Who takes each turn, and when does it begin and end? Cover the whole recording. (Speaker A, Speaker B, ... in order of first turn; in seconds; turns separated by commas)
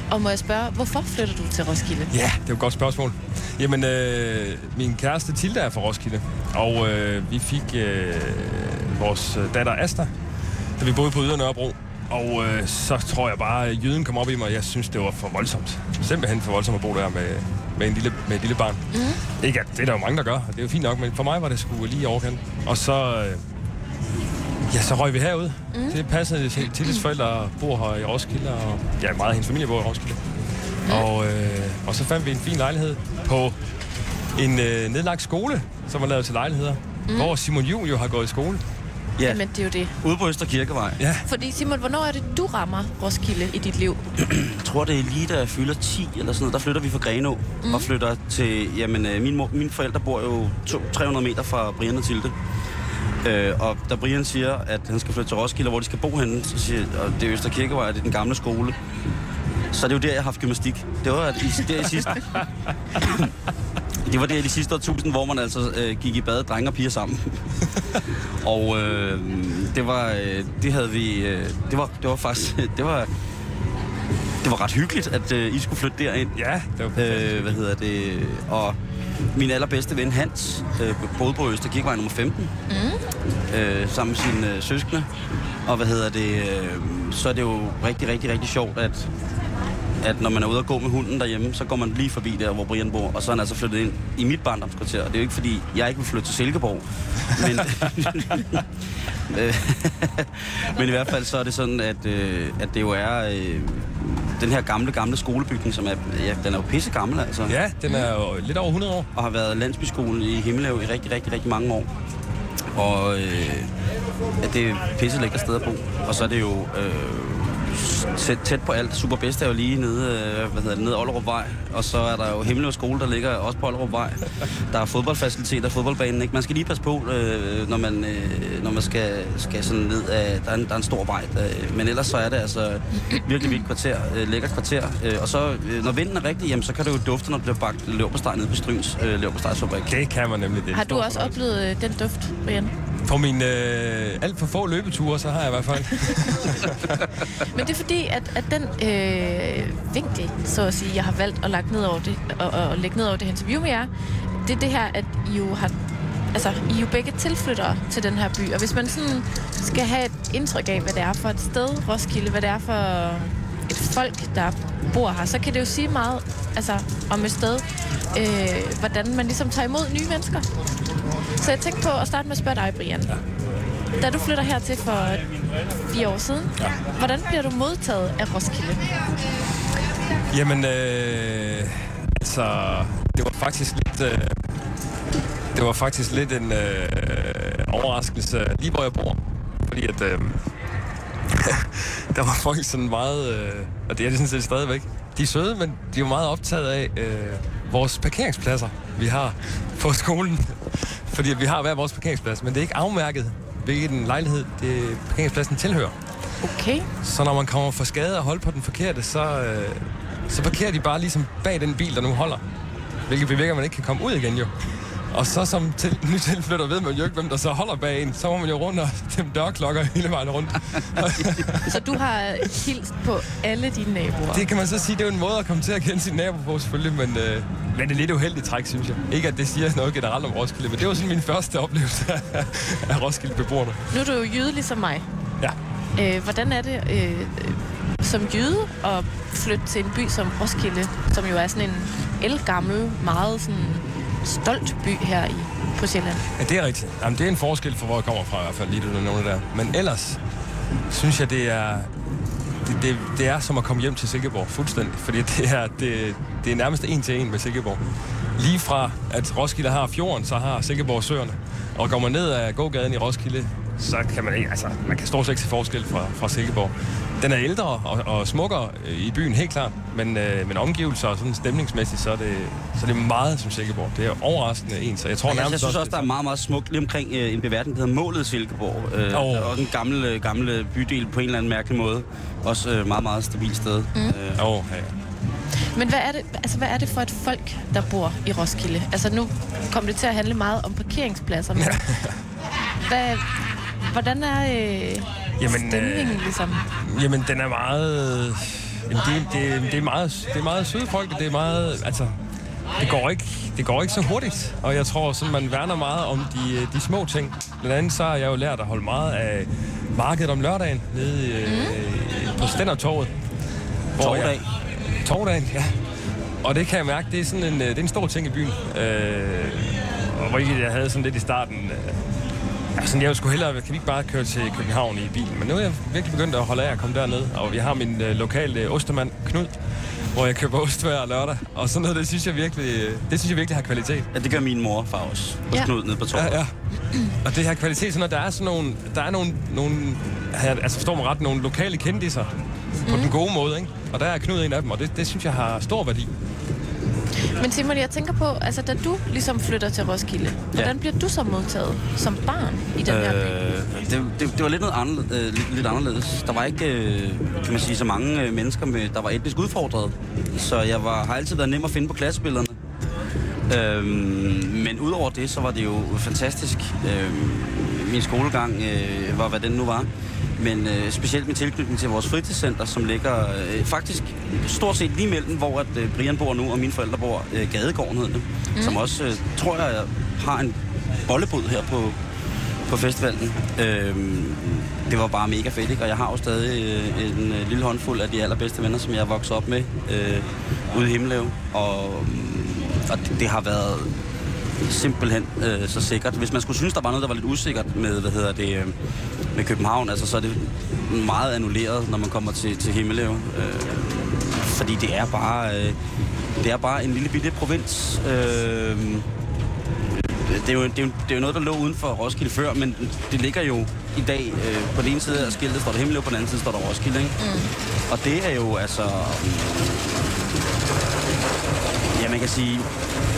Speaker A: 0.1-2.1, Speaker B: 2.1-10.1, Speaker B: 10.8-18.8, Speaker A: 18.9-19.2, Speaker B: 19.4-23.4, Speaker B: 24.7-30.2, Speaker A: 25.7-26.0, Speaker B: 30.9-33.5, Speaker B: 34.4-38.6, Speaker A: 37.1-37.3, Speaker C: 39.2-39.4, Speaker A: 39.2-39.9, Speaker C: 40.0-41.0, Speaker B: 41.0-41.2, Speaker A: 41.2-44.0, Speaker C: 44.2-52.3, Speaker A: 47.6-47.9, Speaker C: 53.2-58.8, Speaker C: 59.7-62.3, Speaker C: 62.9-63.3, Speaker C: 64.0-67.6, Speaker C: 68.4-73.1, Speaker C: 74.4-76.4, Speaker B: 76.3-77.5, Speaker C: 76.9-78.8, Speaker C: 79.3-82.5, Speaker A: 82.7-83.0, Speaker C: 83.5-85.1, Speaker C: 85.6-89.1, Speaker C: 90.0-98.7, Speaker C: 99.3-107.6, Speaker B: 107.5-109.1, Speaker C: 109.1-111.9, Speaker C: 112.7-113.7, Speaker C: 114.4-139.9, Speaker B: 139.9-141.3, Speaker A: 140.7-142.7, Speaker B: 143.0-147.1, Speaker A: 147.3-153.9, Speaker A: 154.4-155.7, Speaker A: 156.3-170.5, Speaker A: 171.4-173.1, Speaker A: 174.0-175.2, Speaker A: 175.9-178.9, Speaker B: 180.3-184.4, Speaker B: 185.5-190.4, Speaker B: 191.3-205.9, Speaker A: 206.4-206.9, Speaker B: 207.0-212.4, Speaker B: 213.1-221.8, Speaker A: 221.7-224.4, Speaker B: 224.3-233.8, Speaker A: 233.9-235.1, Speaker A: 235.9-246.2, Speaker B: 246.4-250.2, Speaker B: 250.9-251.9, Speaker B: 252.6-257.8, Speaker B: 258.4-276.1, Speaker C: 275.3-284.4, Speaker B: 279.1-279.6, Speaker B: 284.4-284.9, Speaker A: 285.5-291.8, Speaker B: 291.6-292.2, Speaker A: 292.8-293.3, Speaker A: 293.9-296.6, Speaker B: 295.4-296.3, Speaker B: 296.8-302.1, Speaker B: 302.8-313.1, Speaker A: 311.4-311.8, Speaker B: 313.9-314.5, Speaker C: 314.0-314.4, Speaker B: 315.0-315.7, Speaker B: 316.4-322.0, Speaker B: 322.8-329.5, Speaker B: 330.1-334.1, Speaker C: 334.1-336.4, Speaker B: 336.1-336.5, Speaker B: 337.2-342.3, Speaker A: 342.9-343.1, Speaker B: 342.9-346.1, Speaker A: 347.3-353.4, Speaker C: 352.8-362.6, Speaker C: 363.5-381.9, Speaker C: 382.7-393.9, Speaker C: 394.6-398.7, Speaker C: 399.3-405.8, Speaker C: 406.4-409.1, Speaker C: 409.9-417.2, Speaker A: 417.2-417.5, Speaker C: 417.9-420.1, Speaker C: 421.9-422.7